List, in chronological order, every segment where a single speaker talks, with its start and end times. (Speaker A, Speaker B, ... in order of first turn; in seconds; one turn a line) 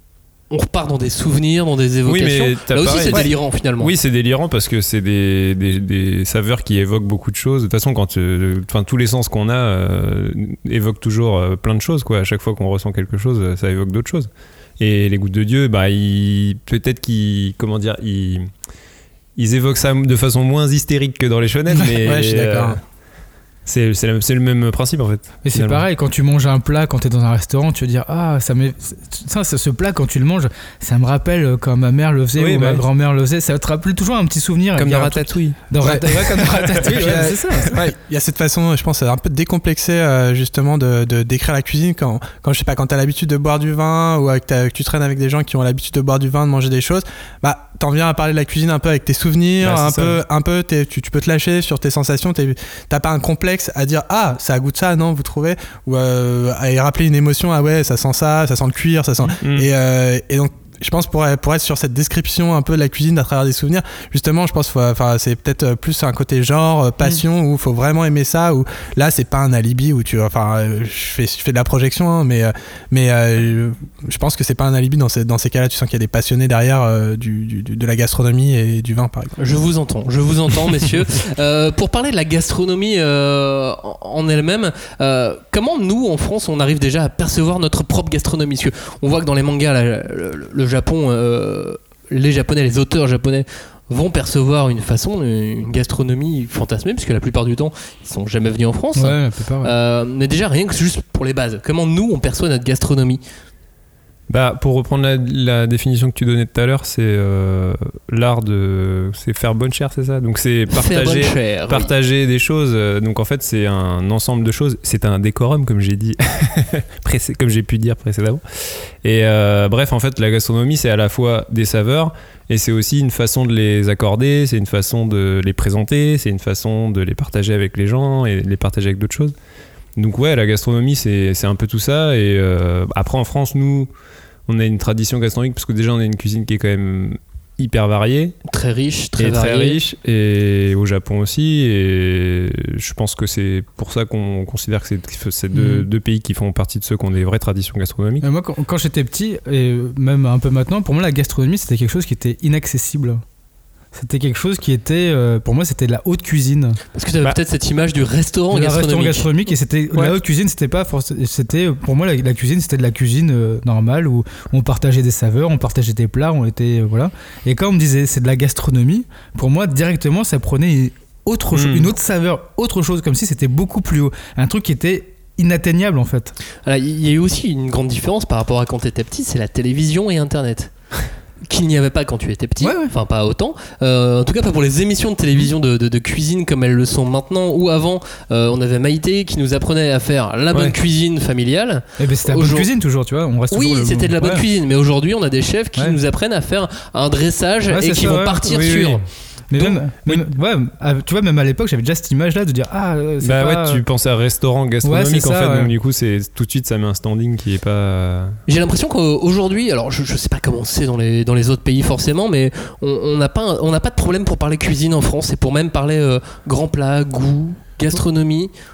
Speaker A: 0.5-3.9
Speaker B: 2.1-18.5
Speaker B: 19.4-22.8
Speaker C: 21.8-22.8
Speaker B: 23.7-25.9
Speaker D: 25.4-37.8
Speaker B: 32.4-32.8
Speaker B: 34.8-37.3
Speaker C: 35.8-36.1
Speaker C: 36.8-79.3
Speaker B: 49.6-50.2
Speaker B: 59.4-59.7
Speaker A: 79.4-103.2
Speaker D: 99.0-99.7
Speaker B: 104.3-129.3
Speaker A: 110.7-111.9
Speaker B: 130.0-133.9
Speaker B: 134.5-138.4
Speaker A: 138.5-139.8
Speaker B: 139.2-148.3
Speaker D: 145.5-145.9
Speaker D: 148.2-153.2
Speaker D: 153.9-156.8
Speaker A: 156.9-159.3
Speaker D: 158.5-176.3
Speaker B: 171.5-171.9
Speaker A: 176.7-180.7
Speaker A: 181.5-192.7
Speaker D: 182.6-182.9
Speaker D: 192.0-194.4
Speaker A: 193.5-199.0
Speaker D: 197.7-198.5
Speaker B: 198.5-199.1
Speaker D: 199.5-203.8
Speaker B: 199.6-200.2
Speaker B: 203.2-208.4
Speaker D: 204.8-205.7
Speaker A: 208.5-218.5